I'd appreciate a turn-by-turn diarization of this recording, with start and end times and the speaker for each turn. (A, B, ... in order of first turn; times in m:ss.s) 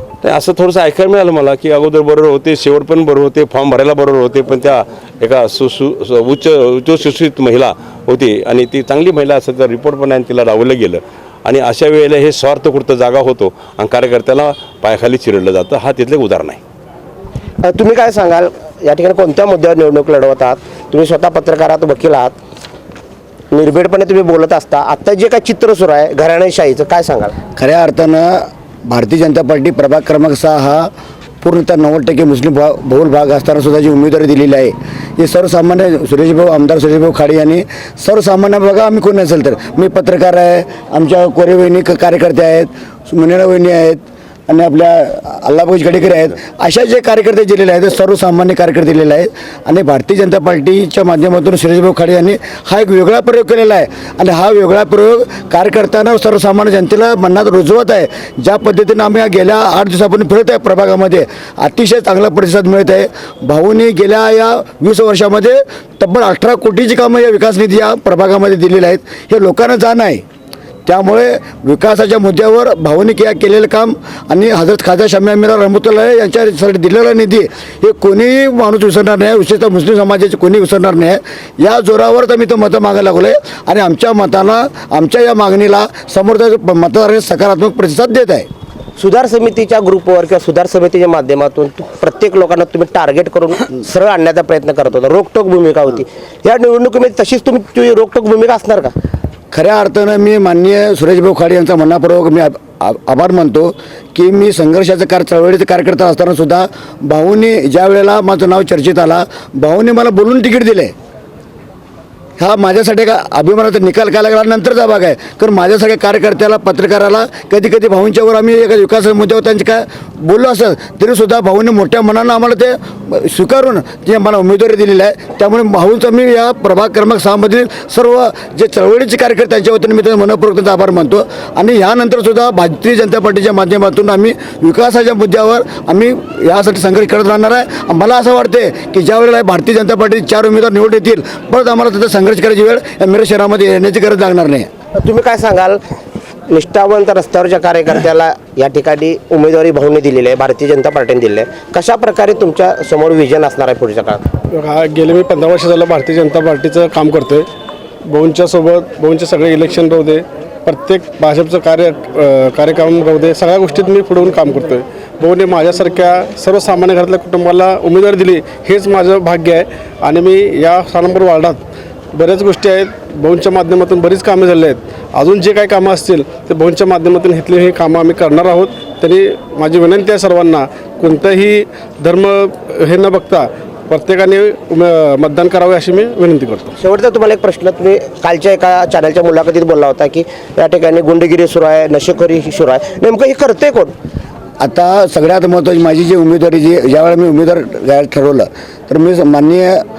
0:00.2-0:16.6 A
0:17.6-0:22.3 B
0:23.5-0:27.3 B
0:27.5-0:30.9 C
0:31.4-1:10.2 C
1:10.8-1:28.5 C
1:29.0-1:38.9 B
1:39.5-1:50.9 C
1:52.4-2:24.7 C
2:25.0-2:25.8 B
2:26.5-2:34.2 B
2:34.5-2:37.5 D
2:38.0-2:51.6 D
2:52.1-3:06.8 D
3:06.8-3:13.9 B
3:14.6-3:19.8 C